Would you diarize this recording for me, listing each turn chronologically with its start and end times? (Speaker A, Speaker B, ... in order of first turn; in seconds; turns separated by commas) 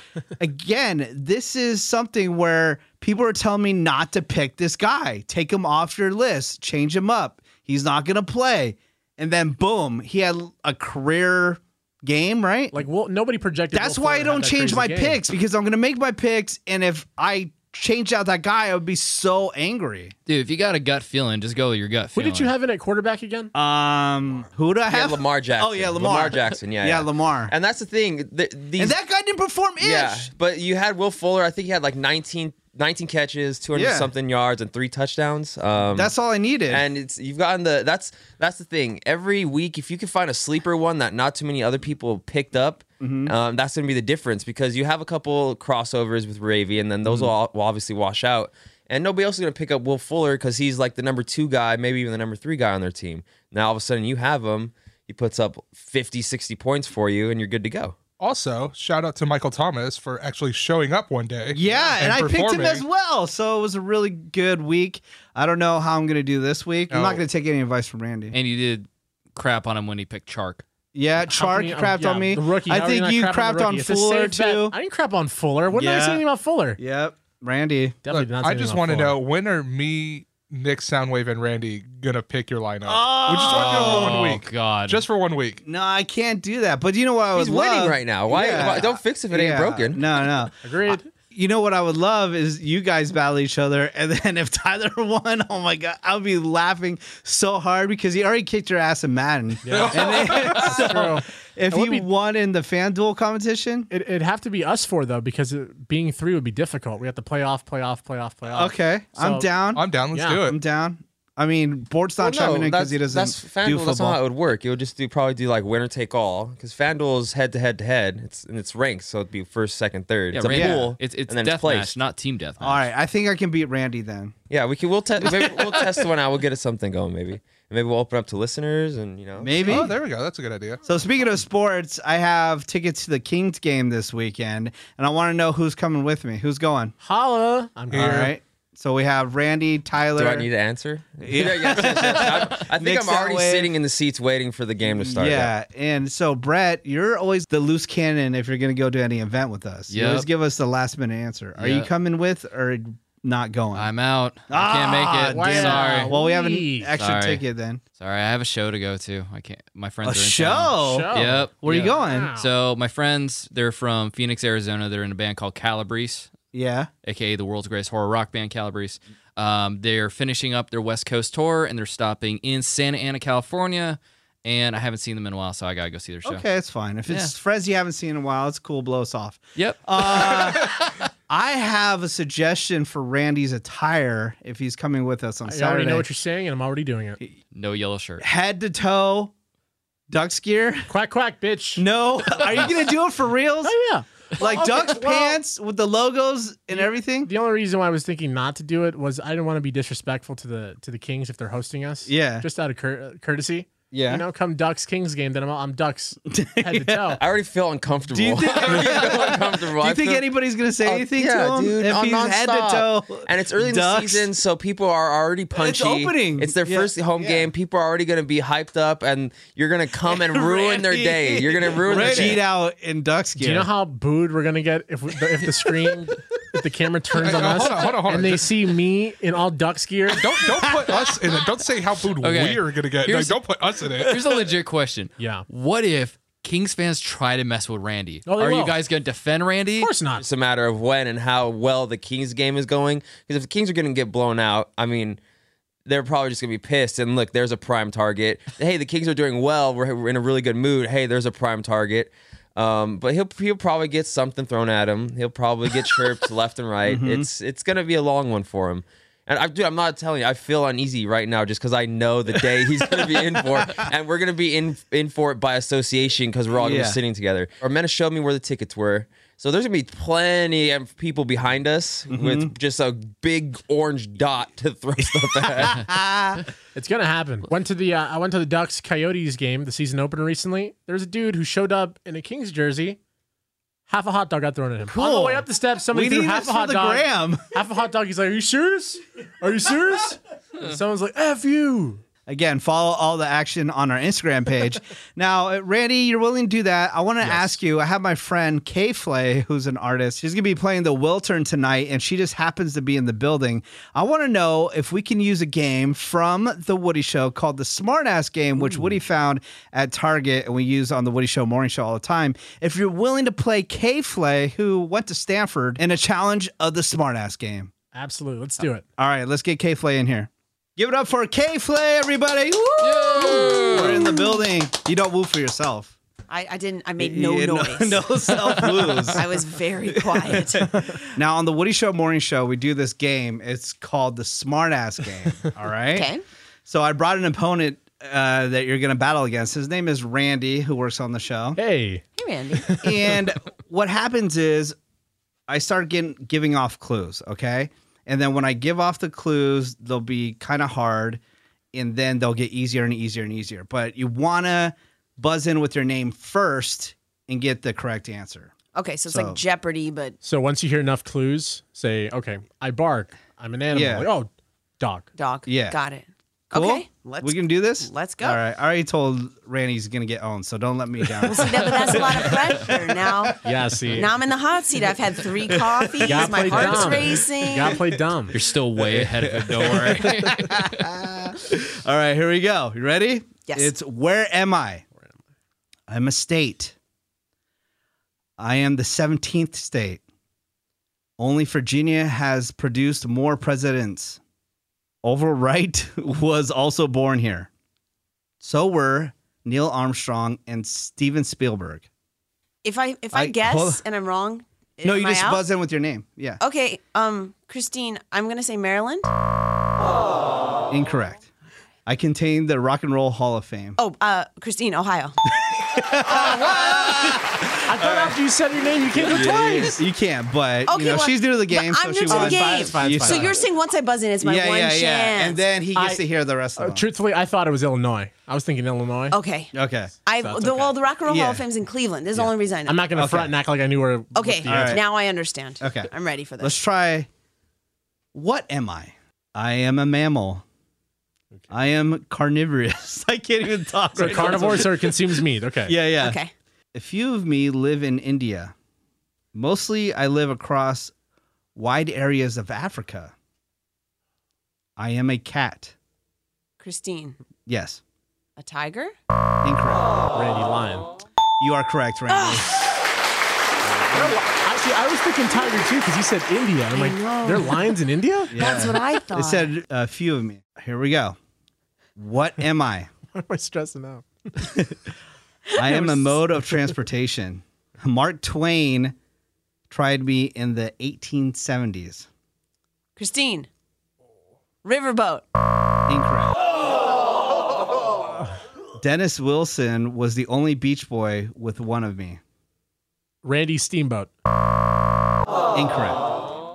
Speaker A: 0.4-12.8, Speaker B: 12.7-15.2, Speaker A: 13.7-20.1, Speaker C: 20.3-22.5, Speaker B: 22.1-23.5, Speaker A: 23.5-27.5, Speaker D: 24.9-29.0, Speaker A: 28.8-30.3, Speaker D: 29.8-36.1, Speaker A: 33.8-34.1, Speaker A: 35.9-36.8, Speaker D: 36.7-58.0, Speaker A: 43.0-43.3, Speaker A: 47.0-47.3, Speaker E: 58.2-62.9, Speaker A: 61.5-68.3, Speaker E: 66.9-67.2, Speaker C: 68.3-70.6, Speaker A: 70.9-74.8, Speaker B: 71.3-76.8, Speaker A: 75.7-76.2, Speaker A: 76.8-78.0, Speaker B: 78.0-79.2, Speaker E: 78.1-85.6, Speaker A: 82.8-84.4, Speaker C: 83.5-85.0, Speaker A: 85.7-103.9, Speaker D: 87.3-90.1, Speaker B: 90.6-91.1, Speaker B: 99.7-102.1, Speaker E: 99.7-100.9, Speaker B: 103.9-109.5, Speaker A: 108.5-109.8, Speaker E: 109.7-110.6, Speaker B: 110.1-110.4, Speaker A: 110.5-114.2, Speaker D: 112.2-122.0, Speaker C: 120.3-122.9, Speaker A: 120.5-120.9, Speaker A: 122.6-124.3, Speaker D: 124.5-129.7, Speaker A: 125.2-125.9, Speaker A: 129.4-129.9, Speaker E: 129.6-130.8, Speaker A: 130.8-136.9, Speaker B: 137.0-138.3, Speaker E: 137.9-138.3, Speaker A: 138.0-140.5, Speaker D: 140.2-145.5, Speaker A: 141.2-143.7, Speaker A: 144.9-153.9, Speaker C: 149.9-150.3, Speaker C: 151.6-151.9, Speaker C: 153.7-156.2, Speaker A: 154.5-157.8, Speaker B: 155.3-156.9, Speaker C: 157.0-157.4, Speaker C: 158.0-166.3, Speaker A: 160.0-162.3, Speaker B: 160.8-162.5, Speaker A: 166.5-166.9, Speaker C: 167.0-176.4, Speaker A: 176.2-186.1, Speaker C: 177.1-177.3, Speaker C: 179.6-180.9, Speaker B: 185.5-187.2, Speaker C: 187.5-188.2, Speaker A: 188.2-189.3, Speaker A: 190.1-190.9, Speaker B: 190.9-191.8, Speaker A: 191.8-193.8, Speaker B: 193.6-195.4, Speaker A: 194.4-197.3, Speaker B: 196.7-207.2, Speaker A: 202.1-202.5, Speaker A: 203.9-204.2, Speaker A: 206.3-207.2, Speaker D: 207.2-210.3, Speaker A: 208.1-214.3, Speaker D: 210.8-222.5, Speaker A: 215.5-217.5, Speaker A: 220.1-223.7, Speaker B: 223.4-230.3, Speaker E: 227.2-228.5, Speaker E: 230.1-234.3, Speaker A: 230.6-231.1, Speaker C: 232.2-233.4, Speaker C: 234.0-239.9, Speaker B: 235.2-235.5, Speaker B: 238.3-238.8, Speaker B: 239.8-240.3, Speaker D: 240.2-245.2, Speaker D: 245.9-275.9, Speaker A: 256.9-257.3, Speaker A: 266.6-267.0, Speaker A: 272.1-272.5, Speaker A: 275.6-276.4, Speaker B: 276.8-283.0, Speaker B: 283.9-292.0, Speaker A: 284.9-287.4, Speaker A: 292.3-317.7, Speaker B: 297.2-297.5, Speaker B: 308.6-309.0, Speaker B: 317.9-318.9, Speaker A: 319.0-325.9, Speaker C: 322.8-324.2, Speaker F: 323.9-324.4, Speaker F: 326.3-328.1, Speaker A: 327.0-336.1, Speaker F: 329.1-330.7, Speaker F: 335.9-336.2, Speaker A: 336.7-341.6, Speaker B: 341.6-342.1, Speaker F: 342.2-342.8, Speaker B: 342.6-343.2, Speaker A: 342.8-344.8, Speaker A: 345.5-351.2, Speaker A: 351.7-358.6, Speaker F: 358.7-360.2, Speaker A: 359.1-359.4, Speaker B: 360.2-365.1, Speaker A: 363.7-364.1, Speaker F: 365.2-368.4, Speaker A: 365.5-365.8, Speaker A: 366.5-372.9, Speaker F: 371.2-373.4, Speaker B: 373.4-374.1, Speaker F: 373.9-377.8, Speaker A: 375.5-384.8, Speaker B: 376.1-378.4, Speaker C: 378.3-380.9, Speaker F: 383.4-383.7, Speaker A: 385.9-386.8, Speaker A: 388.4-390.0, Speaker A: 391.2-394.2, Speaker A: 395.0-397.5, Speaker A: 398.4-401.9, Speaker F: 402.6-405.5, Speaker A: 403.1-403.8, Speaker A: 404.8-406.4, Speaker F: 406.4-409.1, Speaker A: 410.7-411.3, Speaker A: 411.9-413.8, Speaker F: 413.8-415.2, Speaker A: 415.5-418.1, Speaker B: 416.1-419.8, Speaker A: 419.0-423.4, Speaker F: 420.6-425.4, Speaker B: 422.1-423.4, Speaker A: 424.2-426.9, Speaker B: 425.8-426.0, Speaker B: 426.6-429.2, Speaker F: 429.1-429.5, Speaker A: 429.5-429.9, Speaker F: 430.0-432.9, Speaker B: 430.2-430.8, Speaker A: 431.1-431.4, Speaker B: 432.7-434.8, Speaker A: 432.9-433.3, Speaker F: 434.1-436.6, Speaker A: 434.5-434.8, Speaker A: 435.6-437.1, Speaker A: 438.1-440.4, Speaker A: 441.5-446.2, Speaker B: 443.9-445.7, Speaker F: 446.0-446.3, Speaker A: 446.7-448.5, Speaker A: 449.3-450.9, Speaker A: 451.6-453.1, Speaker A: 454.8-455.7, Speaker F: 456.6-457.2, Speaker A: 457.5-457.8, Speaker F: 458.4-458.9, Speaker A: 459.4-459.9, Speaker B: 460.1-460.9, Speaker A: 461.4-462.5, Speaker F: 462.1-462.5, Speaker B: 463.7-468.4, Speaker F: 466.7-467.7, Speaker A: 468.3-471.2, Speaker F: 468.3-469.5, Speaker A: 472.0-472.9, Speaker B: 473.1-474.5, Speaker A: 474.4-474.8, Speaker F: 475.5-476.2, Speaker A: 475.6-478.9, Speaker A: 479.7-482.1, Speaker F: 483.0-483.5, Speaker F: 484.6-485.3, Speaker A: 485.9-486.3, Speaker A: 488.8-492.2, Speaker B: 493.2-494.1, Speaker A: 495.5-496.1